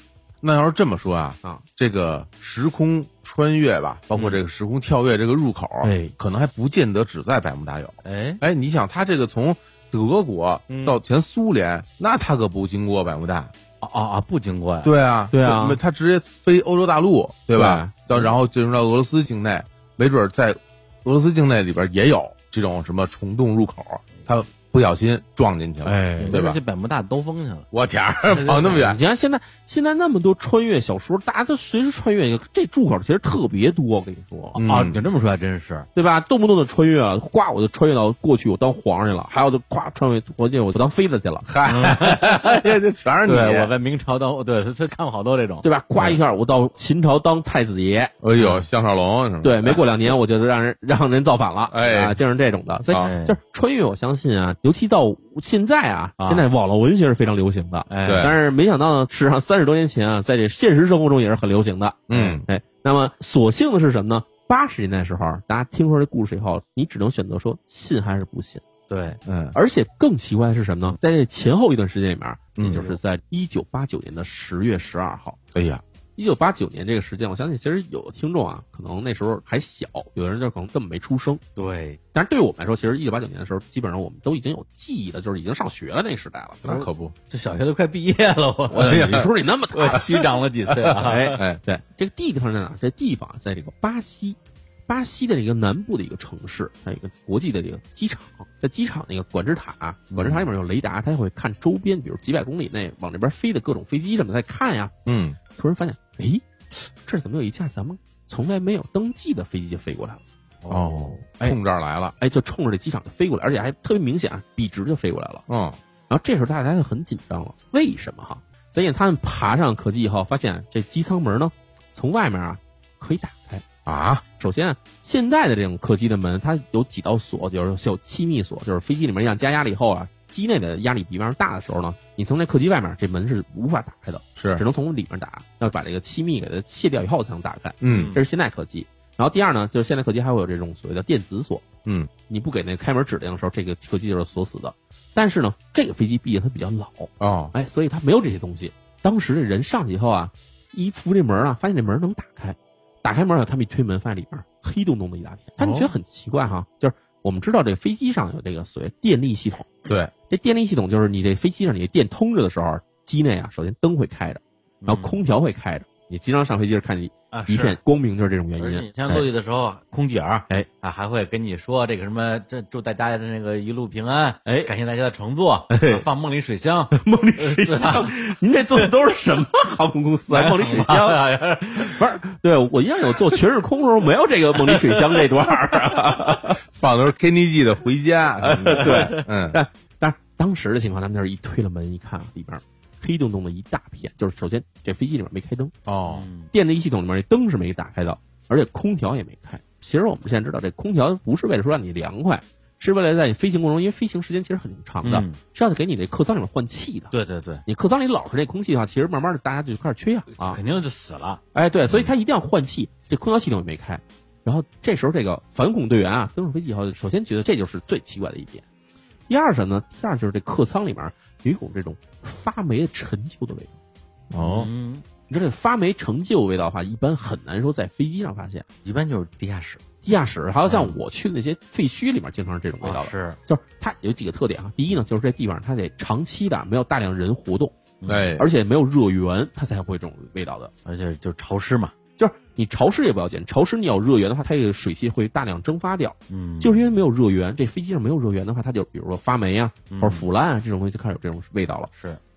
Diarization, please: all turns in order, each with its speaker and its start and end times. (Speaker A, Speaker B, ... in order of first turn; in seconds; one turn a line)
Speaker A: 0.4-13.5
Speaker B: 4.1-4.4
Speaker C: 5.8-6.1
Speaker B: 8.0-8.4
Speaker B: 10.7-11.0
Speaker B: 13.8-14.9
Speaker A: 14.8-26.6
Speaker C: 15.3-15.8
Speaker C: 17.5-18.1
Speaker B: 25.8-27.7
Speaker C: 25.9-26.4
Speaker A: 27.7-29.0
Speaker B: 28.3-28.8
Speaker C: 28.8-34.6
Speaker A: 34.5-35.0
Speaker B: 34.6-35.9
Speaker C: 35.9-41.5
Speaker A: 41.5-43.7
Speaker B: 41.6-42.6
Speaker B: 43.2-45.6
Speaker C: 45.6-48.1
Speaker A: 48.2-49.8
Speaker B: 48.4-48.6
Speaker C: 49.4-68.6
Speaker A: 51.7-52.2
Speaker A: 52.9-53.1
Speaker B: 53.0-53.4
Speaker B: 56.2-56.5
Speaker B: 57.9-58.3
Speaker A: 58.0-58.4
Speaker A: 62.1-62.5
Speaker B: 62.1-62.4
Speaker B: 68.9-69.2
Speaker A: 69.2-69.5
Speaker C: 69.5-75.4
Speaker A: 72.6-72.9
Speaker A: 75.5-75.8
Speaker C: 76.2-81.4
Speaker B: 81.5-82.0
Speaker C: 82.1-86.8
Speaker A: 86.6-87.1
Speaker B: 86.7-91.4
Speaker A: 88.7-89.3
Speaker C: 88.8-90.2
Speaker A: 89.9-91.6
Speaker C: 91.0-104.9
Speaker B: 100.1-100.5
Speaker A: 105.0-105.4
Speaker C: 105.5-110.2
Speaker B: 110.6-111.2
Speaker A: 110.7-112.1
Speaker C: 112.2-115.4
Speaker A: 115.5-115.8
Speaker C: 116.1-123.6
Speaker A: 123.8-124.2
Speaker C: 124.4-141.6
Speaker A: 134.4-134.6
Speaker A: 137.8-138.1
Speaker B: 137.8-138.2
Speaker C: 142.3-159.7
Speaker A: 147.2-147.5
Speaker A: 155.6-155.9
Speaker C: 160.3-169.3
Speaker B: 164.8-165.2
Speaker B: 167.3-167.8
Speaker B: 168.6-178.9
Speaker C: 174.4-174.7
Speaker C: 175.7-176.0
Speaker C: 176.9-181.2
Speaker B: 180.3-182.1
Speaker C: 181.8-186.6
Speaker B: 184.7-185.3
Speaker A: 186.7-189.6
Speaker B: 188.4-189.2
Speaker C: 188.7-195.7
Speaker A: 195.8-196.2
Speaker B: 196.0-196.5
Speaker C: 196.5-207.1
Speaker B: 205.0-205.4
Speaker B: 207.1-207.6
Speaker C: 207.7-210.6
Speaker B: 210.4-211.4
Speaker C: 211.5-218.6
Speaker C: 219.3-223.7
Speaker A: 224.3-224.7
Speaker B: 224.4-225.1
Speaker C: 225.3-228.7
Speaker B: 228.8-229.8
Speaker C: 230.0-237.7
Speaker B: 230.7-230.9
Speaker B: 232.8-233.4
Speaker B: 238.0-238.3
Speaker A: 238.1-238.5
Speaker C: 238.4-240.7
Speaker B: 240.8-241.9
Speaker C: 242.2-251.9
Speaker B: 246.3-246.9
Speaker B: 249.9-250.3
Speaker B: 251.9-252.2